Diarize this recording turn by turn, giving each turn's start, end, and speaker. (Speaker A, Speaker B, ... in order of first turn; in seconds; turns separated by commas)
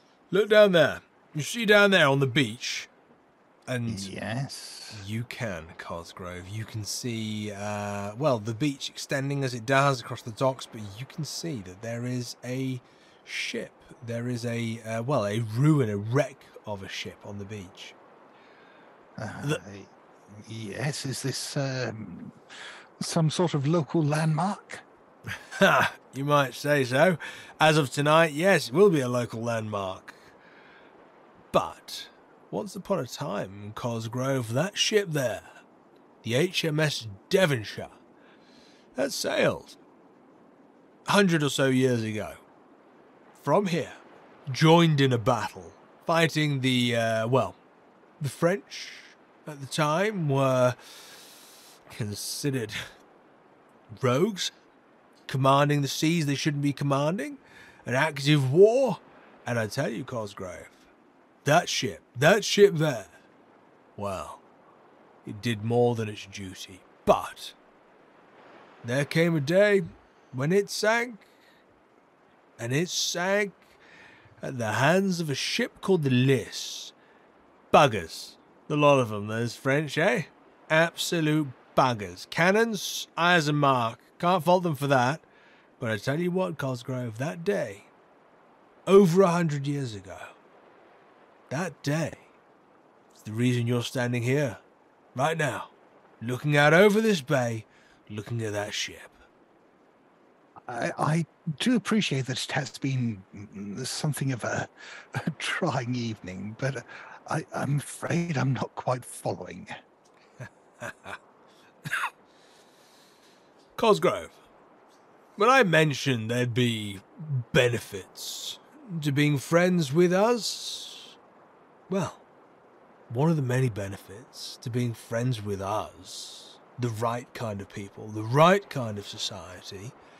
Speaker A: 0.3-2.9, Speaker A: 3.7-4.1, Speaker B: 3.9-5.0, Speaker A: 4.9-17.9, Speaker B: 19.2-22.4, Speaker B: 23.0-24.8, Speaker A: 25.3-30.2, Speaker A: 31.5-35.5, Speaker A: 36.2-37.9, Speaker A: 39.0-39.8, Speaker A: 41.1-42.4, Speaker A: 43.4-47.6, Speaker A: 48.2-51.2, Speaker A: 51.9-52.8, Speaker A: 54.0-54.5, Speaker A: 55.3-60.8, Speaker A: 61.4-63.2, Speaker A: 64.0-64.4, Speaker A: 65.2-67.5, Speaker A: 68.8-71.2, Speaker A: 72.6-73.6, Speaker A: 74.4-76.9, Speaker A: 77.7-85.2, Speaker A: 85.8-87.9, Speaker A: 88.8-90.3, Speaker A: 91.5-92.2, Speaker A: 93.2-94.6, Speaker A: 95.1-99.2, Speaker B: 100.7-109.7, Speaker A: 110.4-111.2, Speaker A: 113.8-114.4, Speaker A: 115.4-121.1, Speaker A: 121.9-122.2, Speaker A: 123.1-129.9